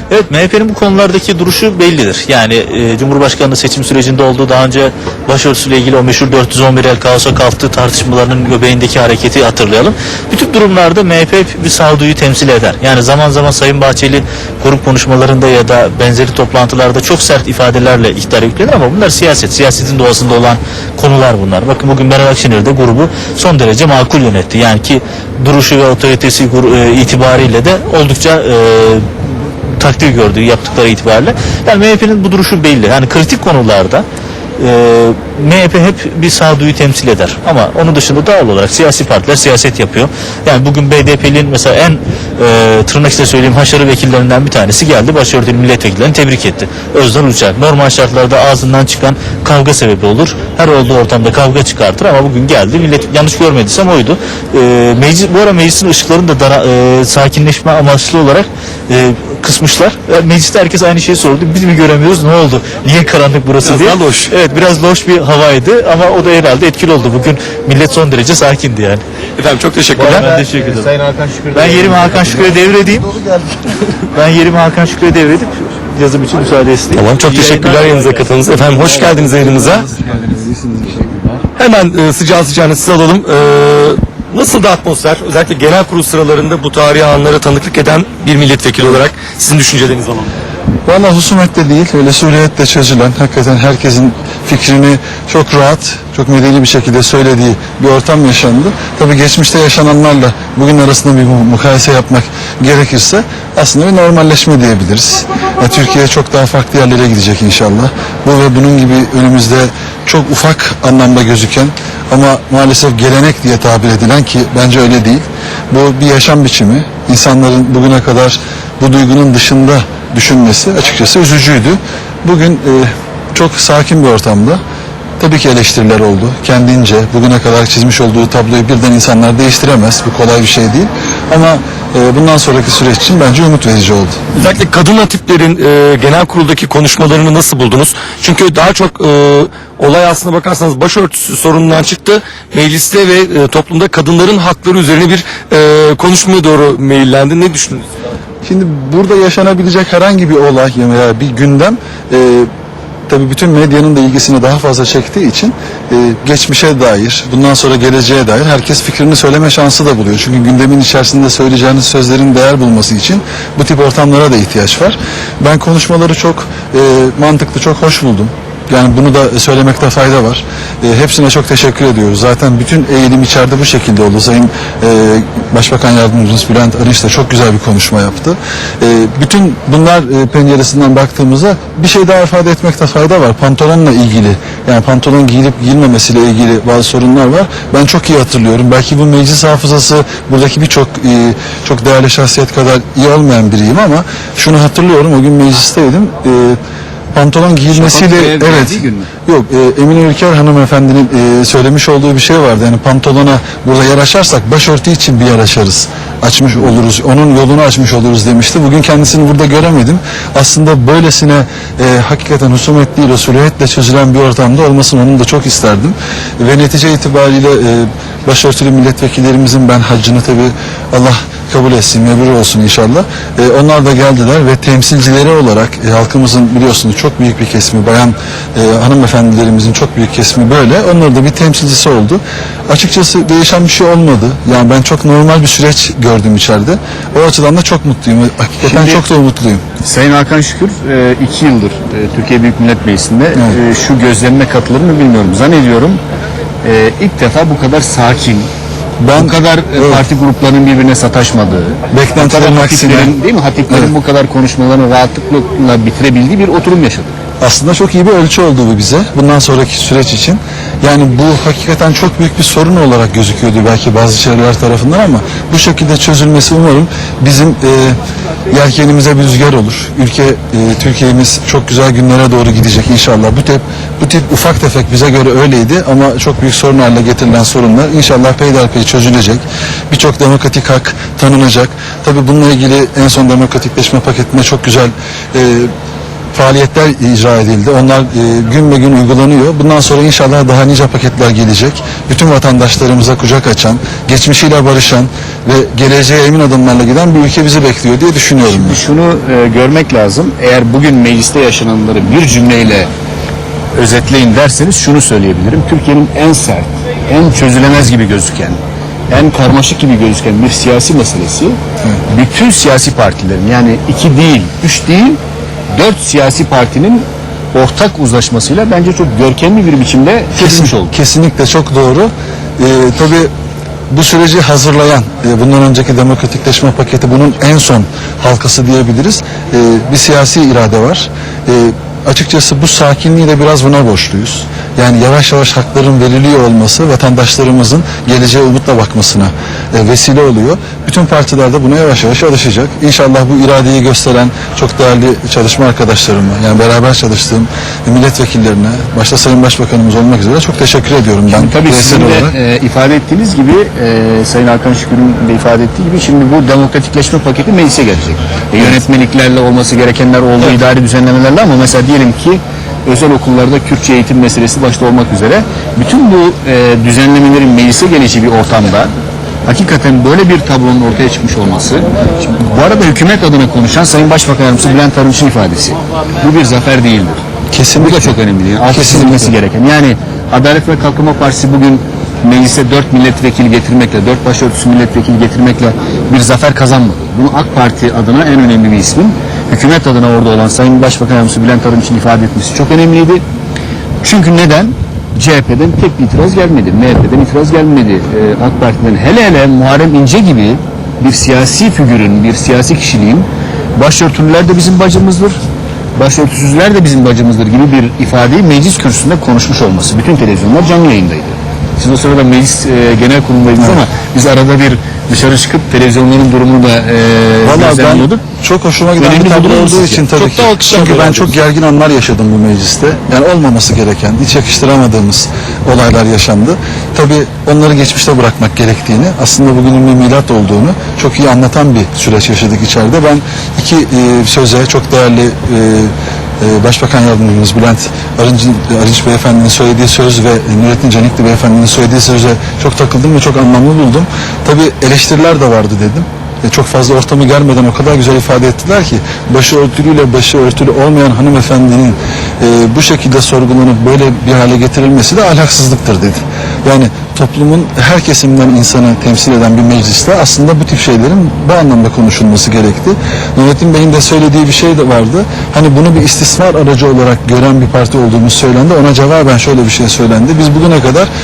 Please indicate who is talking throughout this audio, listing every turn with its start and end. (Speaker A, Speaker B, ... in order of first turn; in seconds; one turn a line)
Speaker A: 0.1-29.1
Speaker A: 29.8-34.0
Speaker A: 34.6-69.0
Speaker B: 63.6-64.3
Speaker B: 69.4-70.3
Speaker A: 70.0-70.9
Speaker C: 70.0-72.3
Speaker A: 71.5-73.1
Speaker A: 74.1-78.0
Speaker B: 76.9-79.9
Speaker D: 80.1-81.0
Speaker B: 81.6-90.3
Speaker D: 90.9-124.6
Speaker D: 125.2-134.2
Speaker B: 134.3-147.9
Speaker D: 148.4-152.5
Speaker D: 153.1-196.6
Speaker D: 197.1-239.7
Speaker C: 197.7-199.1
Speaker C: 238.6-239.0
Speaker C: 239.8-246.0
Speaker C: 246.6-248.5
Speaker D: 249.0-250.0
Speaker C: 249.2-257.2
Speaker D: 251.9-253.1
Speaker D: 257.4-268.0
Speaker D: 268.5-285.7
Speaker D: 286.3-298.8
Speaker C: 298.4-302.9
Speaker C: 303.8-308.6
Speaker C: 309.1-311.6
Speaker C: 312.1-315.2
Speaker C: 315.7-320.9
Speaker D: 320.4-323.3
Speaker D: 323.9-352.3
Speaker C: 351.3-368.9
Speaker C: 369.5-377.2
Speaker D: 377.5-378.1
Speaker C: 377.8-393.2
Speaker D: 378.7-379.4
Speaker C: 394.0-405.4
Speaker C: 406.0-418.2
Speaker D: 417.4-471.1
Speaker C: 419.0-420.4
Speaker B: 420.8-421.2